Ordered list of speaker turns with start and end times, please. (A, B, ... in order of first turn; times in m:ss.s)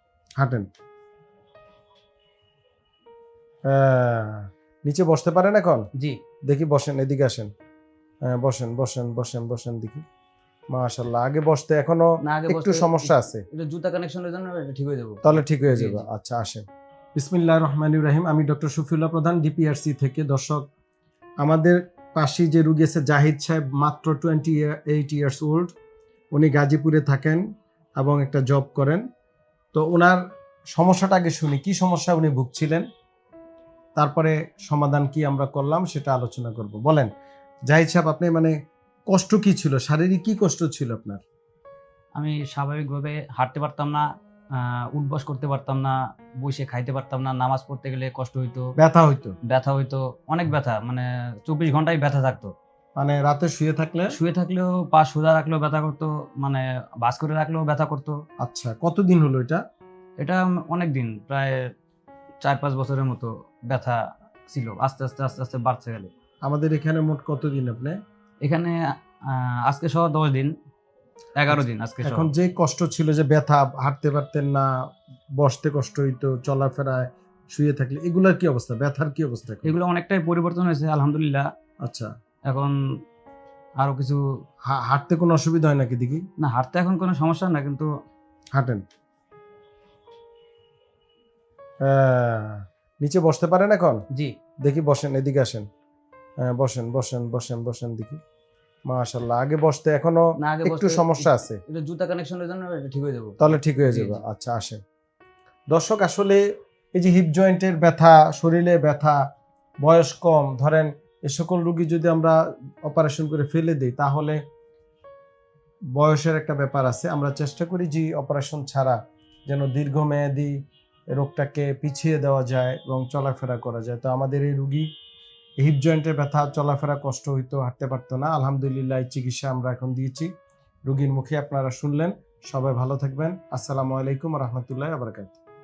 0:00.4-0:00.7 A
0:03.7-0:05.8 A
0:06.5-0:07.5 A
0:08.3-0:10.0 A
0:10.7-0:13.4 A
0:12.2-0:16.0 B
0:15.2-0:16.6 A
0:17.2-0:20.6 A
0:21.4-0:25.7 A
0:26.3-0:27.4 A
0:28.0-0:29.0 A
0:29.7-0:30.2 A
0:30.7-0:32.8 A
0:34.0-0:37.1 A
0:37.7-0:38.5 A
0:39.1-0:41.2 A
0:42.2-0:44.0 B
0:44.6-0:48.7 B
0:48.8-0:49.4 A
0:49.5-0:52.5 B
0:53.0-0:54.1 A
0:54.2-0:58.2 B
0:58.4-0:59.6 A
1:00.2-1:01.6 B
1:02.4-1:06.1 B
1:06.4-1:08.0 A
1:08.4-1:08.8 B
1:09.3-1:10.5 B
1:11.4-1:12.3 B
1:11.5-1:14.7 A
1:15.4-1:19.7 A
1:19.6-1:21.4 B
1:22.5-1:22.7 B
1:23.8-1:24.2 B
1:24.6-1:26.2 A
1:26.4-1:27.9 B
1:28.6-1:28.8 A
1:31.8-1:34.0 A
1:34.6-1:35.6 A
1:36.5-1:38.2 A
1:38.9-1:41.6 A
1:40.4-1:44.2 B
1:43.4-1:44.8 A
1:45.7-1:46.4 A
1:46.9-1:49.2 A
1:49.8-1:54.4 A
1:56.0-2:00.5 A
2:01.1-2:04.9 A
2:05.6-2:10.3 A
2:10.9-2:15.4 A